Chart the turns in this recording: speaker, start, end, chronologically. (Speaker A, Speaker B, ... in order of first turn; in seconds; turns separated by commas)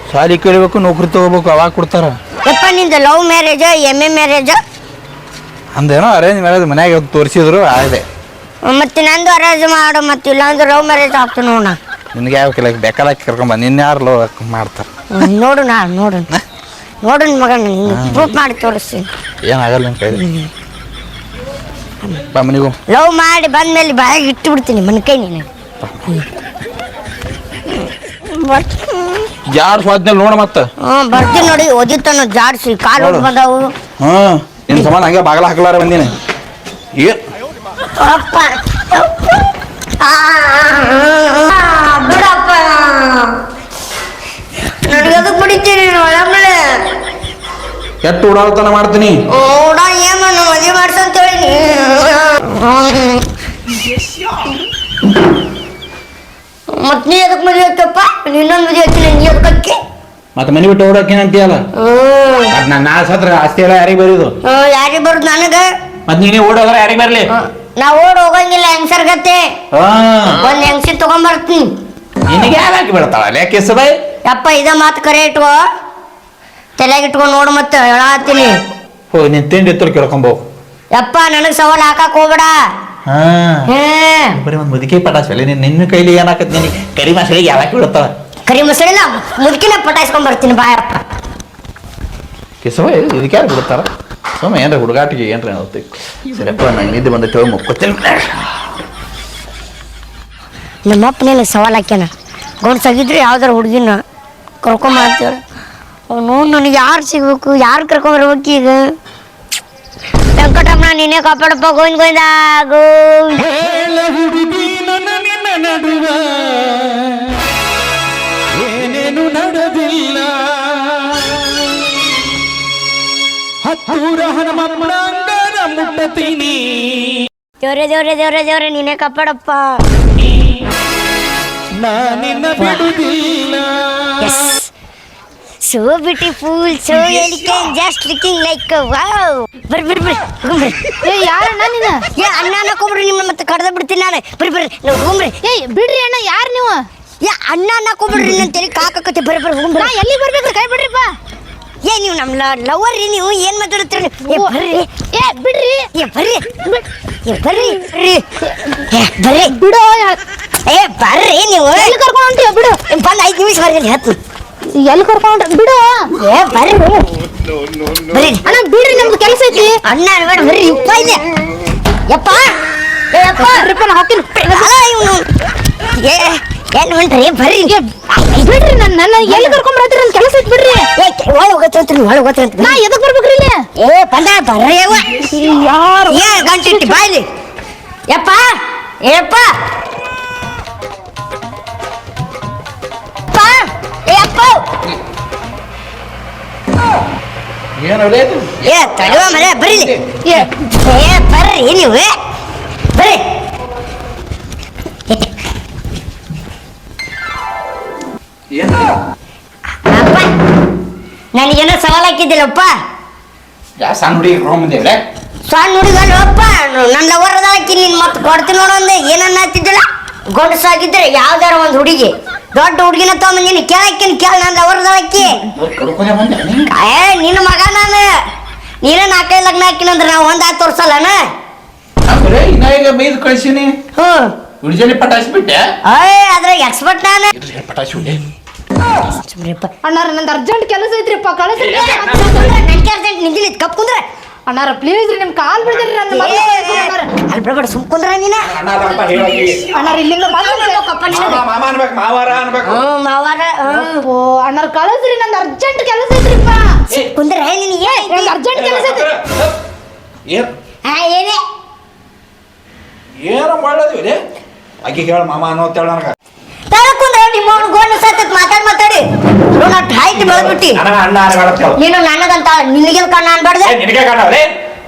Speaker A: 0.1-2.2, Speaker B: 2.5-4.6, Speaker A: 5.8-8.1, Speaker B: 8.7-11.8, Speaker A: 12.1-15.3, Speaker B: 15.1-16.3, Speaker B: 17.0-19.1, Speaker A: 17.9-18.3, Speaker A: 19.5-20.2, Speaker B: 20.1-20.5, Speaker A: 22.3-22.8, Speaker B: 22.9-25.5, Speaker A: 25.8-26.1, Speaker B: 28.1-29.3, Speaker A: 29.5-30.7, Speaker B: 30.8-33.7, Speaker A: 33.0-33.3, Speaker A: 34.0-36.1, Speaker B: 38.0-39.1, Speaker B: 40.0-43.4, Speaker B: 44.7-46.8, Speaker A: 48.0-49.2, Speaker B: 49.3-53.2, Speaker B: 56.8-59.8, Speaker A: 60.4-61.6, Speaker B: 61.8-62.5, Speaker A: 62.5-64.3, Speaker B: 64.4-65.7, Speaker A: 66.1-67.3, Speaker B: 67.3-69.5, Speaker A: 69.7-70.4, Speaker B: 70.4-71.7, Speaker A: 72.3-74.0, Speaker B: 74.3-75.6, Speaker B: 76.8-78.6, Speaker A: 79.1-80.4, Speaker B: 80.9-82.5, Speaker A: 83.1-83.7, Speaker B: 83.7-84.4, Speaker A: 84.4-88.1, Speaker B: 88.5-91.0, Speaker A: 92.6-98.7, Speaker B: 100.9-104.0, Speaker B: 104.6-105.4, Speaker B: 106.1-108.8, Speaker B: 110.4-113.6, Speaker A: 113.6-117.0, Speaker A: 118.6-120.7, Speaker A: 123.6-127.1, Speaker B: 127.6-129.8, Speaker A: 131.7-133.7, Speaker B: 132.6-132.9, Speaker B: 134.2-134.7, Speaker B: 135.7-141.0, Speaker C: 141.0-142.1, Speaker B: 142.2-145.4, Speaker C: 145.4-146.8, Speaker B: 147.2-149.9, Speaker C: 149.8-151.1, Speaker B: 151.8-154.9, Speaker C: 154.3-155.9, Speaker B: 155.9-158.2, Speaker B: 158.8-159.6, Speaker C: 159.4-160.2, Speaker B: 160.7-161.9, Speaker C: 161.8-162.8, Speaker B: 162.9-164.2, Speaker C: 164.8-166.1, Speaker B: 166.2-167.1, Speaker B: 168.1-168.5, Speaker C: 168.4-169.8, Speaker B: 169.2-171.2, Speaker B: 172.1-172.5, Speaker B: 173.1-173.7, Speaker C: 173.4-174.7, Speaker B: 174.4-175.3, Speaker B: 176.0-178.6, Speaker C: 178.4-180.9, Speaker B: 179.3-179.6, Speaker B: 181.0-182.8, Speaker C: 182.6-183.6, Speaker B: 183.8-185.3, Speaker C: 185.2-187.0, Speaker B: 186.1-187.2, Speaker B: 188.1-188.4, Speaker B: 189.1-189.5, Speaker B: 193.3-194.6, Speaker A: 197.8-200.0, Speaker B: 198.6-199.9, Speaker C: 200.2-200.5, Speaker B: 200.7-202.1, Speaker B: 202.9-203.2, Speaker A: 208.5-208.9, Speaker B: 209.9-210.3, Speaker B: 211.3-212.7, Speaker A: 213.8-215.0, Speaker B: 215.5-225.4, Speaker A: 225.5-226.7, Speaker B: 226.7-228.1, Speaker B: 228.8-231.2, Speaker A: 232.1-233.8, Speaker B: 234.0-234.3, Speaker A: 234.6-235.6, Speaker B: 235.9-237.3, Speaker A: 237.3-238.2, Speaker B: 239.0-239.7, Speaker C: 239.8-242.5, Speaker B: 241.6-244.0, Speaker C: 244.5-247.1, Speaker B: 246.1-248.5, Speaker A: 248.5-249.7, Speaker C: 249.7-250.8, Speaker B: 250.3-251.4, Speaker A: 251.1-252.8, Speaker B: 252.6-254.1, Speaker C: 253.7-256.8, Speaker B: 257.0-258.4, Speaker C: 257.9-259.1, Speaker A: 258.5-259.5, Speaker B: 260.9-261.4, Speaker A: 263.2-264.2, Speaker A: 264.8-266.1, Speaker B: 266.7-270.8, Speaker A: 270.1-271.8, Speaker B: 271.8-273.8, Speaker A: 273.6-274.5